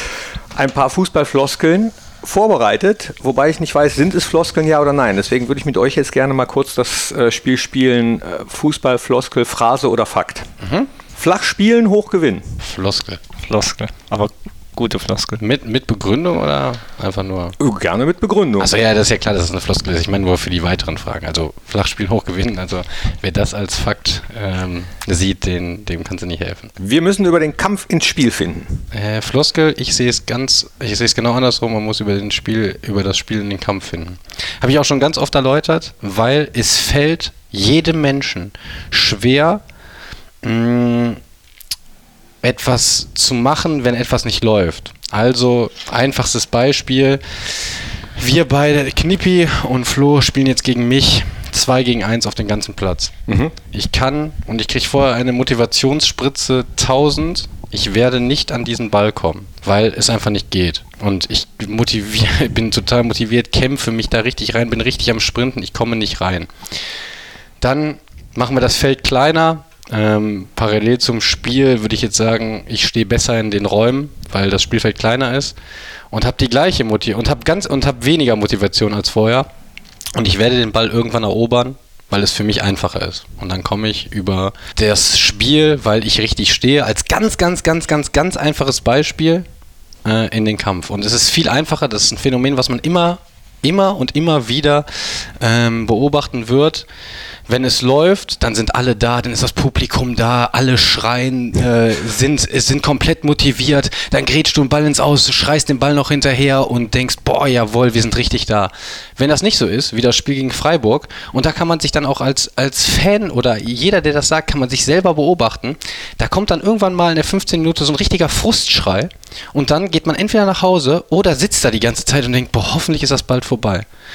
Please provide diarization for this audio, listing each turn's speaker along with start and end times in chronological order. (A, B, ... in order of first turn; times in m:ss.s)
0:00.5-0:10.5 A
0:10.6-0:10.9 B
0:11.1-0:12.5 A
0:12.6-0:13.2 B
0:13.4-0:15.4 C
0:15.4-0:17.6 B
0:17.6-0:18.7 A
0:18.6-0:26.7 B
0:26.8-0:28.8 A
0:28.9-0:39.6 B
0:40.4-0:41.2 B
0:42.4-0:53.1 B
0:53.3-0:53.5 A
0:53.7-1:06.5 B
1:07.6-1:15.5 B
1:16.1-1:19.5 B
1:20.1-1:29.4 B
1:30.0-1:36.8 B
1:37.5-2:03.8 B